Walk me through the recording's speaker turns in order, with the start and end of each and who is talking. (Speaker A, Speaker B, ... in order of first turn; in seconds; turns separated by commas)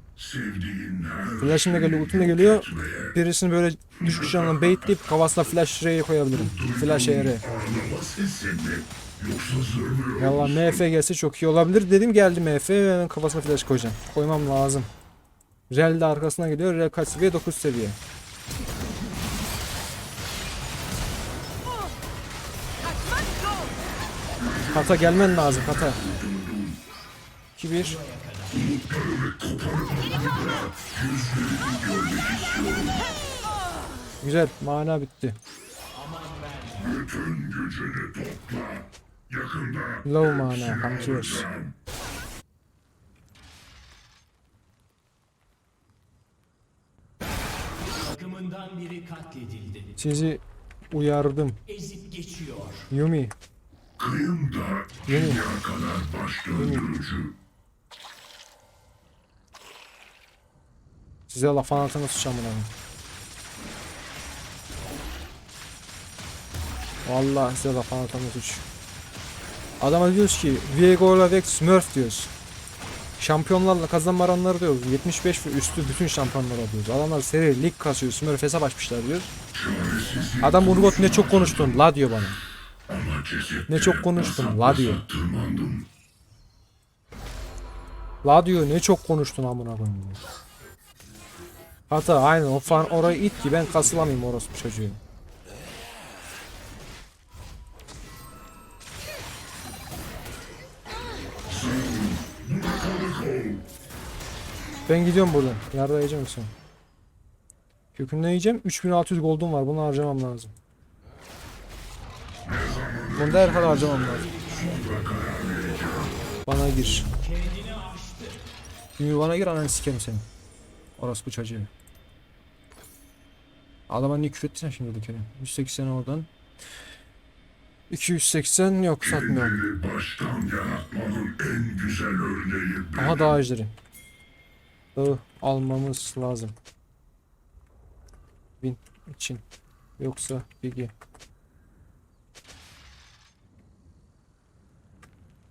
Speaker A: 0.2-3.2, Speaker B: 1.4-7.4, Speaker A: 4.0-5.0, Speaker A: 6.3-10.8, Speaker B: 10.2-14.9, Speaker B: 15.7-18.0, Speaker A: 24.4-26.8, Speaker B: 24.7-26.0, Speaker B: 27.6-28.0, Speaker C: 27.8-28.7, Speaker A: 28.5-33.1, Speaker B: 34.2-35.4, Speaker C: 35.9-36.9, Speaker A: 36.8-41.8, Speaker B: 40.0-41.5, Speaker C: 47.9-50.0, Speaker B: 50.0-51.6, Speaker C: 51.7-52.9, Speaker B: 52.9-53.3, Speaker A: 54.0-57.4, Speaker B: 55.1-55.4, Speaker B: 56.6-56.9, Speaker B: 61.3-62.7, Speaker B: 67.0-68.6, Speaker B: 69.8-72.3, Speaker B: 73.2-79.3, Speaker A: 79.5-81.8, Speaker B: 80.4-82.4, Speaker A: 82.9-85.9, Speaker B: 83.7-85.0, Speaker B: 88.2-90.2, Speaker B: 91.9-95.0, Speaker C: 92.7-94.3, Speaker A: 101.5-103.7, Speaker B: 104.9-106.5, Speaker B: 107.9-110.5, Speaker A: 112.4-116.2, Speaker B: 113.2-114.3, Speaker C: 113.8-115.1, Speaker B: 116.5-117.1, Speaker C: 117.1-118.4, Speaker B: 119.0-120.3, Speaker B: 121.0-121.7, Speaker B: 123.9-126.3, Speaker B: 127.9-129.6, Speaker A: 129.0-133.4, Speaker B: 133.0-133.7, Speaker B: 134.9-136.6, Speaker B: 138.6-139.4, Speaker B: 140.0-140.9